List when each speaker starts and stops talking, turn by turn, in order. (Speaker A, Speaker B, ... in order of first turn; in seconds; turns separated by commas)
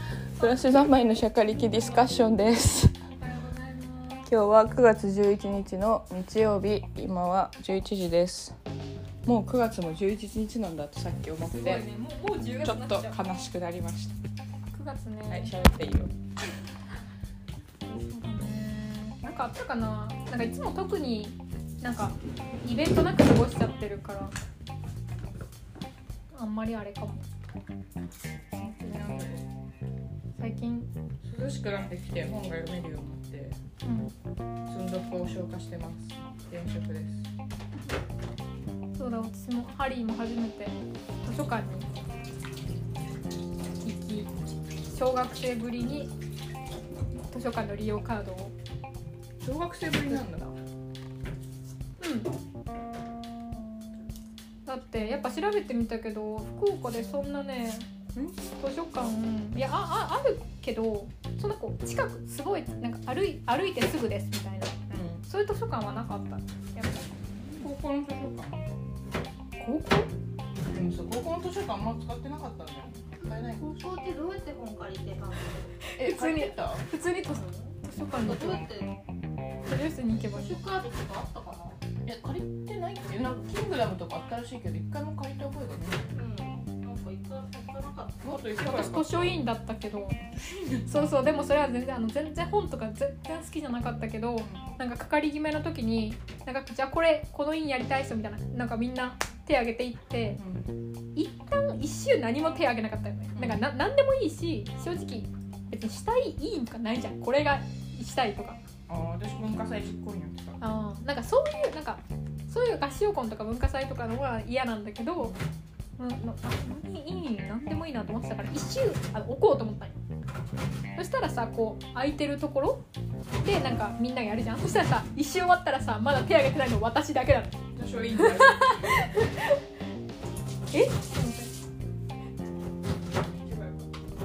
Speaker A: 0.4-2.9, Speaker B: 1.5-2.2, Speaker B: 3.1-4.3, Speaker A: 4.3-8.6, Speaker A: 9.2-11.8, Speaker B: 11.4-13.2, Speaker A: 12.6-14.2, Speaker B: 14.7-15.5, Speaker A: 15.3-16.1, Speaker B: 17.9-24.3, Speaker B: 26.4-27.3, Speaker A: 28.5-29.5, Speaker B: 30.4-30.9, Speaker A: 31.2-33.6, Speaker B: 33.8-34.1, Speaker A: 34.7-37.3, Speaker B: 39.0-41.9, Speaker B: 43.8-44.3, Speaker B: 44.9-46.1, Speaker B: 47.3-48.5, Speaker A: 49.4-50.5, Speaker B: 52.0-52.3, Speaker B: 54.7-57.9, Speaker A: 58.1-58.4, Speaker B: 58.6-67.2, Speaker A: 64.9-65.2, Speaker A: 67.5-68.7, Speaker A: 69.6-70.0, Speaker B: 69.7-70.0, Speaker A: 70.6-73.7, Speaker C: 73.5-75.8, Speaker B: 75.8-78.7, Speaker A: 76.0-76.8, Speaker C: 77.3-79.0, Speaker B: 79.7-80.6, Speaker C: 80.3-81.8, Speaker A: 82.0-86.0, Speaker C: 86.1-88.4, Speaker A: 88.2-89.3, Speaker B: 88.6-90.2, Speaker A: 90.4-91.0, Speaker B: 90.9-100.4, Speaker A: 100.4-100.7, Speaker B: 101.2-108.6, Speaker A: 103.3-103.7, Speaker A: 108.9-110.6, Speaker B: 110.6-115.4, Speaker B: 116.0-120.0, Speaker B: 121.0-122.8, Speaker B: 123.4-127.6, Speaker A: 127.8-128.9, Speaker B: 128.2-129.4, Speaker B: 130.7-131.5, Speaker A: 133.3-133.9